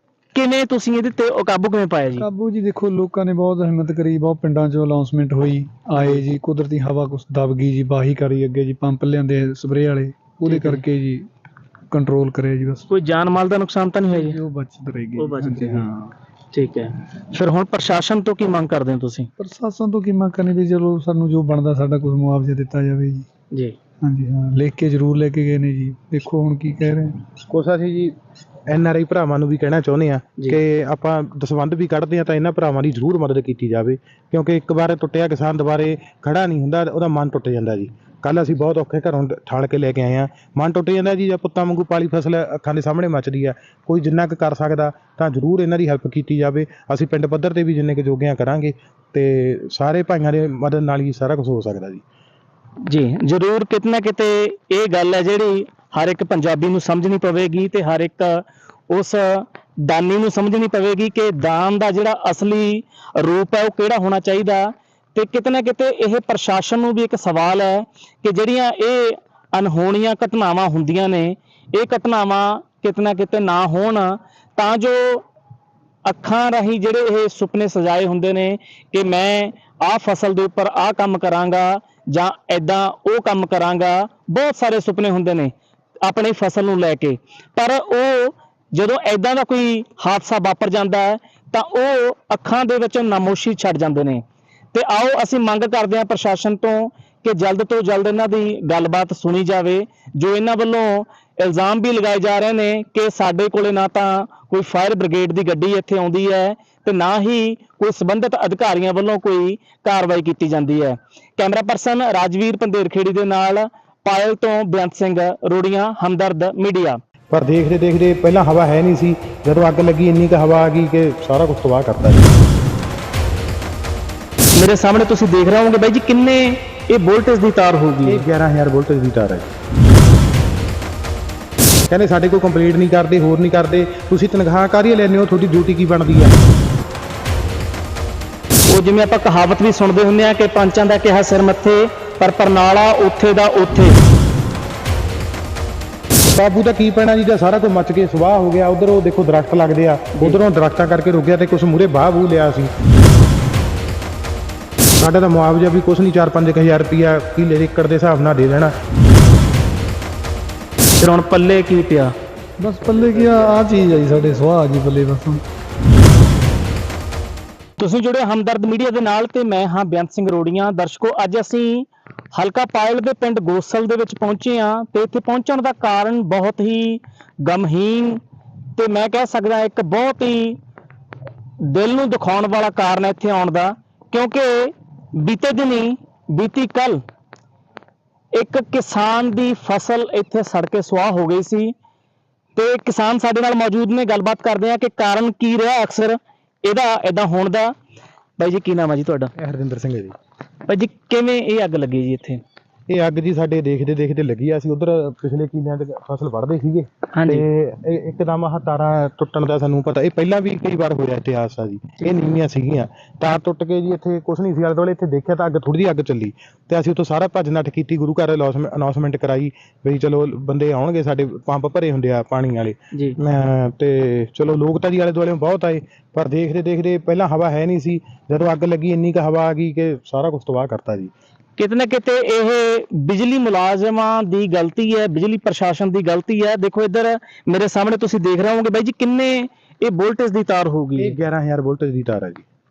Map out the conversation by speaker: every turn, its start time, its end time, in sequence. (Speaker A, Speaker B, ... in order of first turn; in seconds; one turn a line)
Speaker A: 0.3-2.3
Speaker B: 2.2-11.2
Speaker A: 6.0-6.2
Speaker A: 10.5-10.8
Speaker B: 11.9-12.9
Speaker A: 12.9-14.4
Speaker B: 14.1-16.1
Speaker A: 15.2-15.9
Speaker A: 16.5-19.3
Speaker B: 19.4-23.3
Speaker B: 24.0-27.1
Speaker C: 27.5-28.1
Speaker C: 28.7-52.0
Speaker A: 52.9-75.3
Speaker A: 76.1-94.2
Speaker A: 94.7-117.0
Speaker C: 117.3-122.3
Speaker A: 124.6-128.2
Speaker C: 128.0-129.5
Speaker C: 131.9-136.3
Speaker A: 138.7-144.0
Speaker C: 146.2-152.7
Speaker C: 155.0-158.7
Speaker A: 161.0-162.1
Speaker B: 162.6-165.4
Speaker A: 167.8-178.2
Speaker A: 178.8-180.6
Speaker A: 181.6-187.0
Speaker A: 188.3-191.7
Speaker A: 192.6-197.7
Speaker A: 198.4-199.3
Speaker C: 199.4-200.1
Speaker A: 200.7-202.4
Speaker C: 202.9-231.1
Speaker A: 207.1-207.4
Speaker A: 231.6-241.2
Speaker C: 241.0-242.4